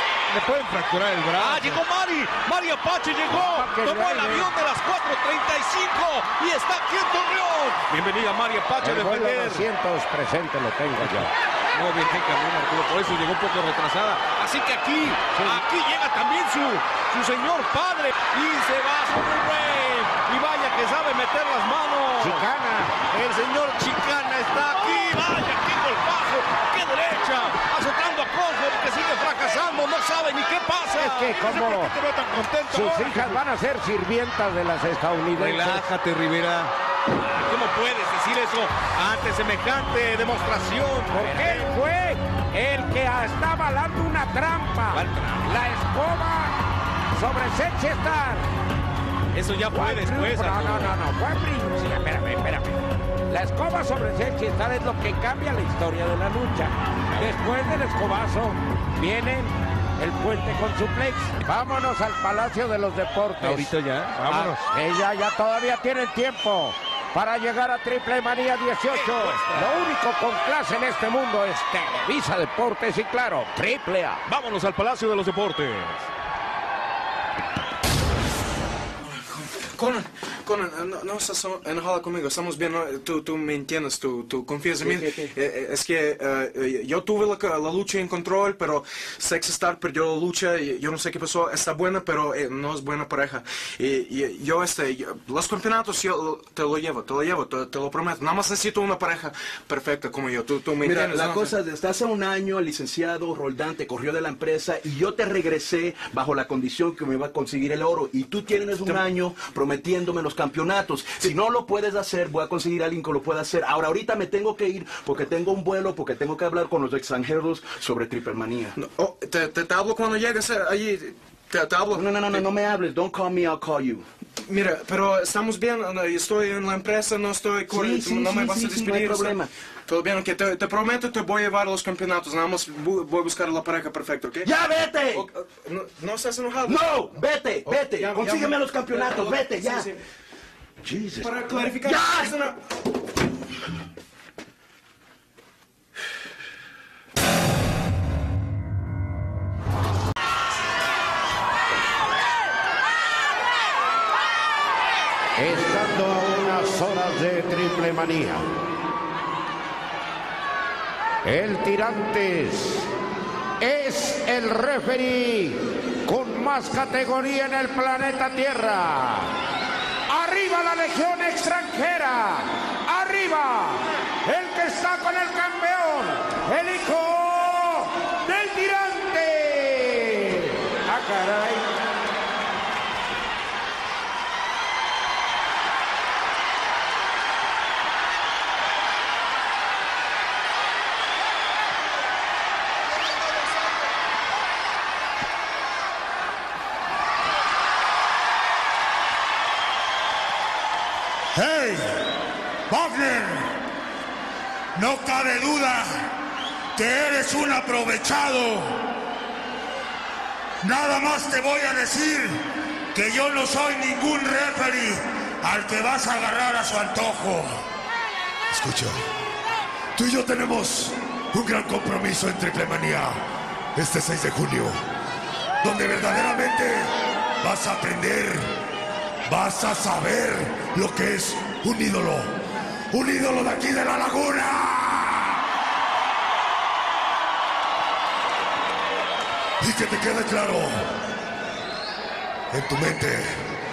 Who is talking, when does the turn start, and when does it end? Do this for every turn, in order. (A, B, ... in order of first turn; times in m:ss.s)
0:00.3-0:01.8 A
0:01.4-0:09.7 B
0:03.3-0:04.5 C
0:08.8-0:11.3 C
0:11.0-0:22.4 B
0:15.4-0:15.6 C
0:22.2-0:23.0 C
0:23.1-0:31.3 B
0:31.0-0:31.9 C
0:31.1-0:33.4 A
0:32.7-0:35.9 C
0:35.4-0:41.7 B
0:41.1-0:46.6 C
0:44.9-0:45.6 B
0:47.1-0:48.5 C
0:49.3-0:50.9 B
0:49.7-1:03.7 C
1:03.4-1:04.5 B
1:04.2-1:04.7 A
1:04.7-1:14.2 C
1:08.9-1:09.9 B
1:14.3-1:16.1 B
1:19.0-1:41.6 D
1:40.8-1:58.8 E
1:58.8-2:02.5 D
2:01.8-2:04.1 E
2:04.4-2:14.5 D
2:07.6-2:09.5 E
2:14.4-2:15.3 E
2:15.1-2:20.0 D
2:16.6-2:19.9 E
2:20.8-2:22.5 E
2:21.2-2:22.6 D
2:35.4-2:38.5 C
2:41.2-2:42.9 C
2:43.6-2:49.3 C
2:50.1-3:01.7 C
3:21.3-3:22.1 F
3:22.7-3:23.6 F
3:24.8-3:26.1 F
3:26.8-3:28.8 F
3:30.6-3:37.6 F
3:38.5-3:39.0 F
3:40.0-3:43.2 F
3:43.8-3:44.8 F
3:45.6-3:48.5 F
3:49.3-3:52.3 F
3:52.9-3:55.4 F
3:59.6-4:00.9 F
4:02.5-4:03.4 F